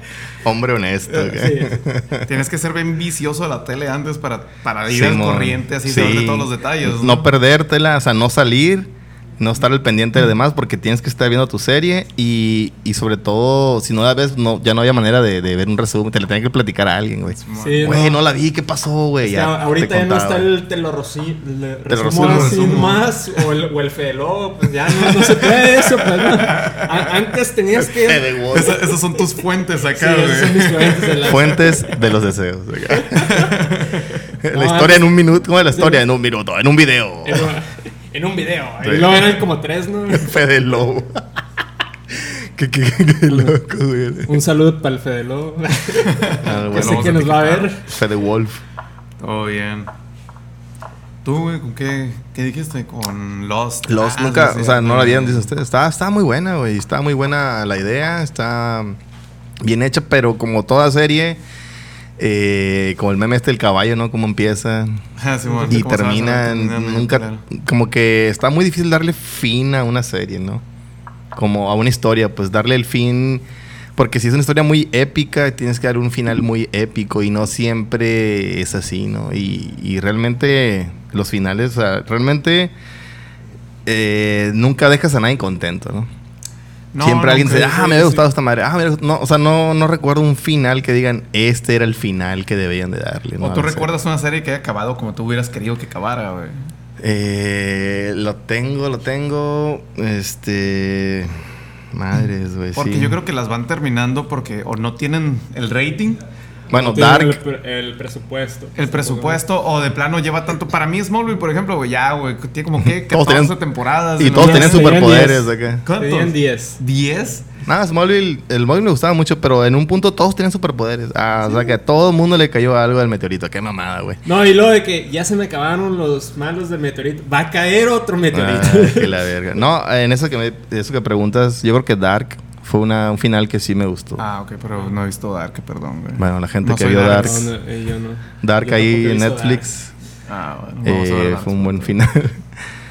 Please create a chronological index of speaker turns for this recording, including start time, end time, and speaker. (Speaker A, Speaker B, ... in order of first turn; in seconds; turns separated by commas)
Speaker A: 0.4-2.3, Speaker B: 1.1-1.8, Speaker C: 2.2-7.3, Speaker A: 4.9-20.5, Speaker C: 17.4-18.0, Speaker B: 17.6-18.2, Speaker B: 19.2-28.8, Speaker A: 21.9-23.0, Speaker C: 22.1-23.1, Speaker C: 25.2-26.9, Speaker A: 27.8-28.8, Speaker C: 28.5-31.3, Speaker B: 29.9-31.9, Speaker A: 31.2-33.3, Speaker B: 33.1-33.5, Speaker C: 33.2-34.1, Speaker A: 34.4-37.5, Speaker B: 34.5-35.1, Speaker B: 35.7-36.0, Speaker B: 37.2-40.3, Speaker A: 38.8-39.4, Speaker A: 40.1-41.2, Speaker A: 42.1-44.4, Speaker B: 43.3-43.5, Speaker B: 44.2-47.8, Speaker C: 46.1-47.7, Speaker A: 46.4-48.6, Speaker C: 49.2-49.9, Speaker C: 51.2-55.5, Speaker A: 53.9-59.0, Speaker A: 59.6-61.4, Speaker A: 62.2-65.0, Speaker C: 65.2-67.4, Speaker B: 65.5-65.8, Speaker A: 65.7-70.6, Speaker A: 71.3-73.4, Speaker A: 74.0-82.7, Speaker A: 83.8-86.1, Speaker C: 86.9-88.2, Speaker A: 87.0-93.9, Speaker C: 93.4-96.7, Speaker A: 97.0-101.3, Speaker A: 101.9-103.2, Speaker C: 102.7-106.2, Speaker A: 106.7-107.4, Speaker B: 106.7-109.4, Speaker C: 108.8-115.2, Speaker A: 112.8-113.6, Speaker A: 114.2-115.8, Speaker B: 114.3-116.8, Speaker C: 115.8-117.5, Speaker A: 117.6-124.2, Speaker B: 124.2-129.2, Speaker A: 128.3-134.2, Speaker C: 134.2-137.5, Speaker A: 136.2-137.5, Speaker B: 137.1-139.7, Speaker A: 138.4-139.9, Speaker C: 140.3-141.9, Speaker A: 140.8-142.4